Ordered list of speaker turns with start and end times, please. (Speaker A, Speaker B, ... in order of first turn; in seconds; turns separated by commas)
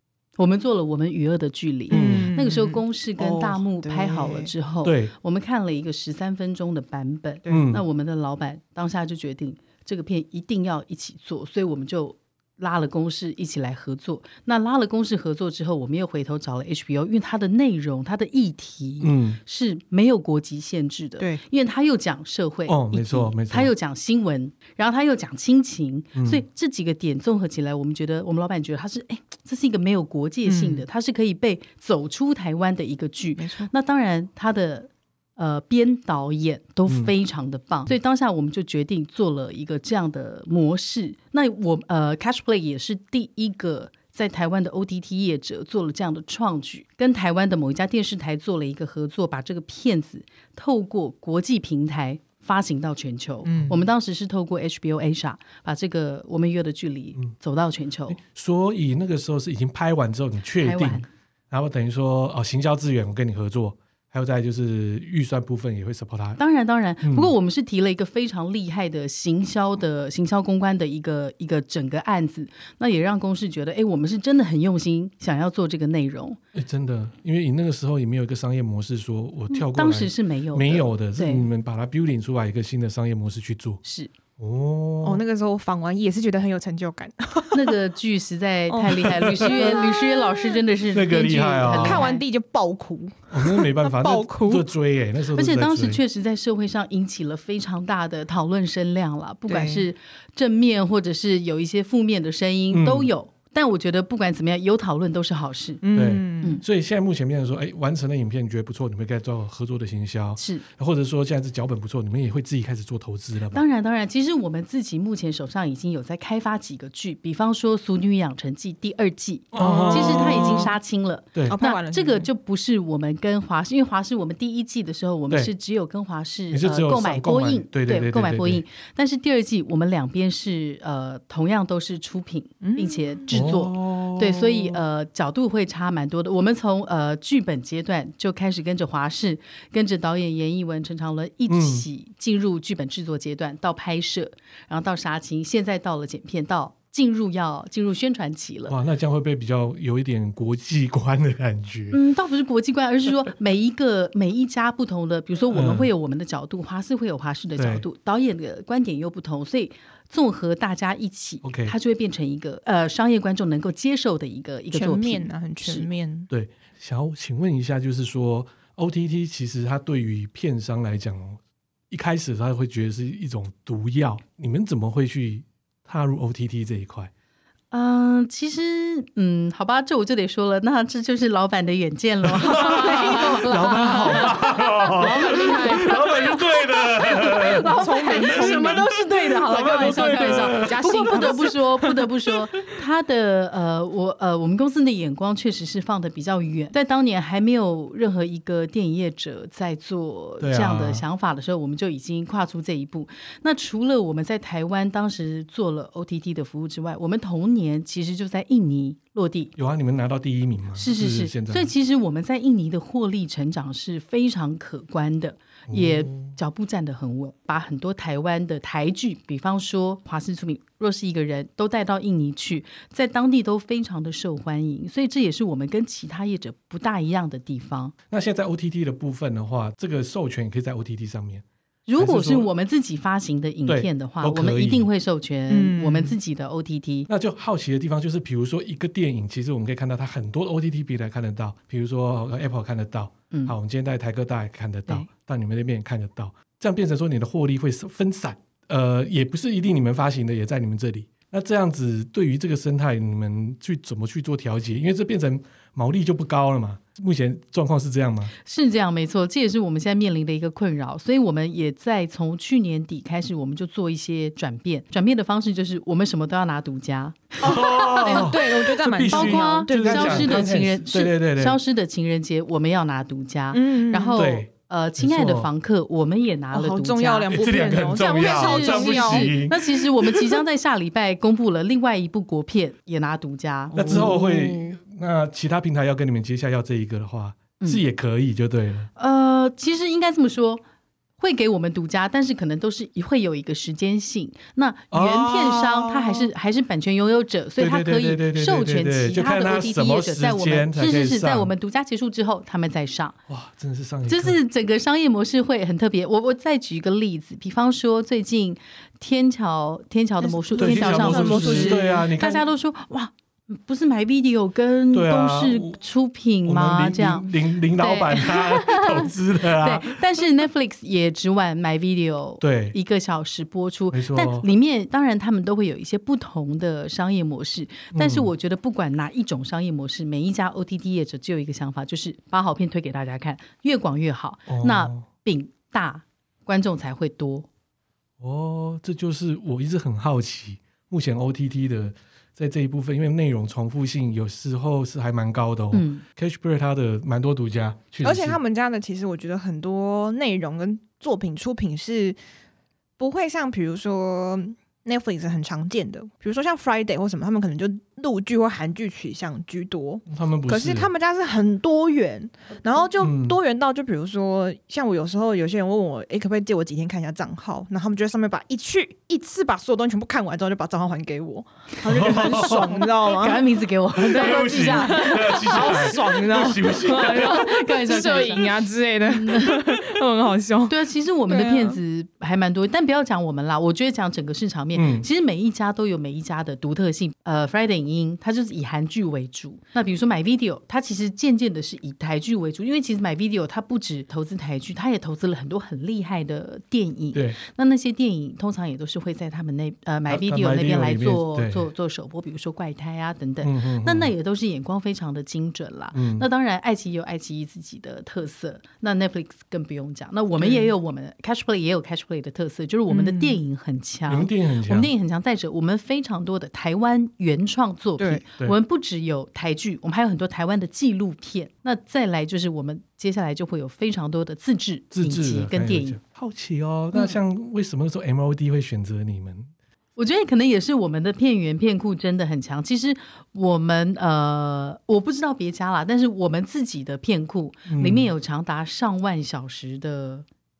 Speaker A: 0.4-58.2, Speaker B: 1.9-4.5, Speaker C: 1.9-2.4, Speaker C: 4.8-5.1, Speaker B: 7.5-7.7, Speaker C: 7.5-7.8, Speaker C: 19.0-19.4, Speaker C: 22.7-23.7, Speaker C: 26.1-26.4, Speaker B: 30.4-30.9, Speaker B: 33.4-33.7, Speaker C: 36.9-37.1, Speaker B: 53.5-53.8, Speaker C: 58.1-66.4, Speaker A: 60.6-61.1, Speaker A: 66.4-76.4, Speaker C: 67.0-67.3, Speaker C: 76.5-83.8, Speaker A: 79.5-81.5, Speaker A: 83.8-84.1, Speaker C: 84.4-85.2, Speaker B: 85.0-87.8, Speaker A: 87.5-92.2, Speaker B: 88.7-90.6, Speaker C: 89.3-89.7, Speaker C: 90.9-92.1, Speaker B: 91.7-94.7, Speaker C: 93.3-96.0, Speaker A: 95.3-105.8, Speaker B: 99.5-99.9, Speaker C: 102.7-103.1, Speaker B: 105.8-106.6, Speaker C: 105.9-113.6, Speaker A: 110.4-110.6, Speaker A: 113.5-148.8, Speaker C: 119.5-120.7, Speaker B: 119.6-120.8, Speaker B: 121.5-122.3, Speaker C: 126.5-128.6, Speaker B: 132.6-133.4, Speaker C: 133.3-134.8, Speaker C: 141.5-141.9, Speaker C: 148.7-152.0, Speaker A: 151.9-165.9, Speaker C: 155.5-155.9, Speaker C: 157.6-157.8, Speaker C: 161.4-161.8, Speaker B: 164.7-166.3, Speaker C: 166.3-171.4, Speaker C: 171.9-177.1, Speaker A: 177.7-209.5, Speaker C: 182.2-188.9, Speaker B: 182.6-183.4, Speaker B: 184.9-186.2, Speaker B: 187.2-192.1, Speaker C: 189.4-191.4, Speaker C: 200.4-201.0, Speaker C: 209.6-211.7, Speaker A: 210.8-227.9, Speaker C: 215.7-216.4, Speaker C: 228.1-231.4, Speaker A: 231.9-237.1, Speaker C: 232.0-232.5, Speaker C: 233.7-234.9, Speaker B: 235.5-236.2, Speaker C: 237.1-258.3, Speaker A: 258.4-268.3, Speaker C: 267.4-271.6, Speaker B: 267.4-270.6, Speaker A: 269.1-277.4, Speaker B: 273.5-274.3, Speaker C: 274.1-275.5, Speaker B: 276.5-279.4, Speaker C: 277.3-280.4, Speaker A: 278.0-284.1, Speaker B: 283.7-284.8, Speaker C: 283.7-288.9, Speaker A: 289.0-290.6, Speaker A: 291.2-303.2, Speaker C: 294.9-296.3, Speaker C: 297.6-301.5, Speaker C: 303.3-304.4, Speaker A: 304.1-337.5, Speaker B: 310.2-312.0, Speaker C: 310.6-312.4, Speaker C: 314.9-315.8, Speaker C: 316.4-320.2, Speaker C: 322.4-322.8, Speaker C: 323.9-324.5, Speaker C: 327.9-328.3, Speaker C: 334.5-335.1, Speaker C: 338.2-348.4, Speaker A: 345.7-346.0, Speaker B: 348.0-352.2, Speaker B: 353.0-373.5, Speaker C: 360.1-360.9, Speaker C: 363.0-363.4, Speaker C: 371.9-372.8, Speaker A: 372.1-376.0, Speaker C: 373.9-377.5, Speaker B: 374.1-381.8, Speaker A: 376.9-379.8, Speaker A: 380.7-426.0, Speaker C: 384.8-385.1, Speaker C: 400.1-401.7, Speaker C: 403.4-404.1, Speaker C: 405.9-406.3, Speaker B: 410.4-410.7, Speaker B: 412.9-413.4, Speaker C: 414.1-414.9, Speaker B: 418.0-418.2, Speaker C: 424.9-429.5, Speaker A: 430.0-440.2, Speaker C: 437.7-438.1